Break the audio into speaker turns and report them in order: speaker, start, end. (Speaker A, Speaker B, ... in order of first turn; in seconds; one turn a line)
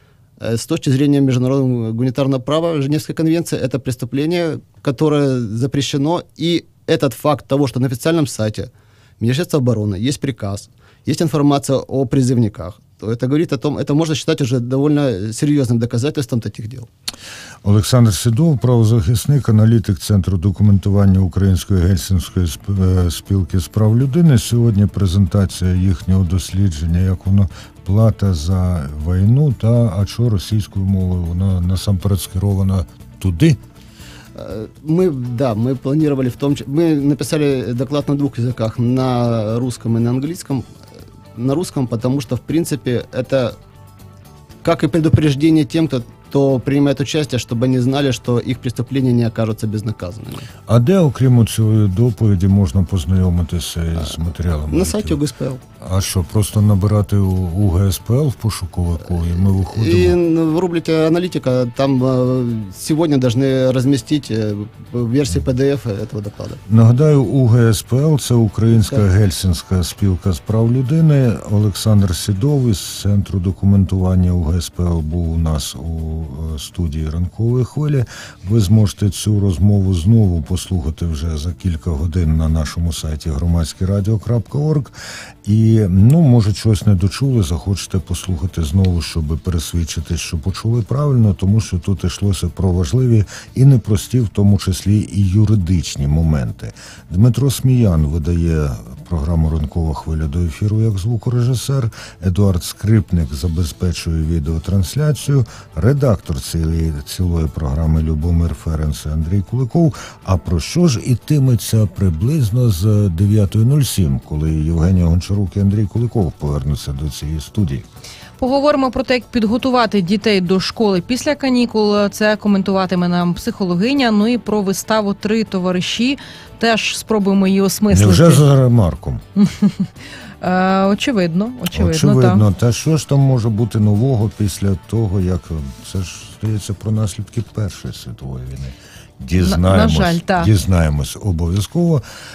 Speaker A: 0.4-16.9
Speaker B: 17.6-33.6
Speaker A: 34.4-40.7
Speaker A: 41.4-43.6
Speaker A: 44.6-50.5
Speaker B: 50.7-55.2
Speaker A: 54.7-55.6
Speaker B: 55.8-60.2
Speaker A: 59.2-66.6
Speaker B: 66.7-117.8
Speaker C: 118.4-128.4
Speaker B: 127.9-129.2
Speaker C: 129.4-132.4
Speaker B: 131.7-142.0
Speaker C: 139.4-140.5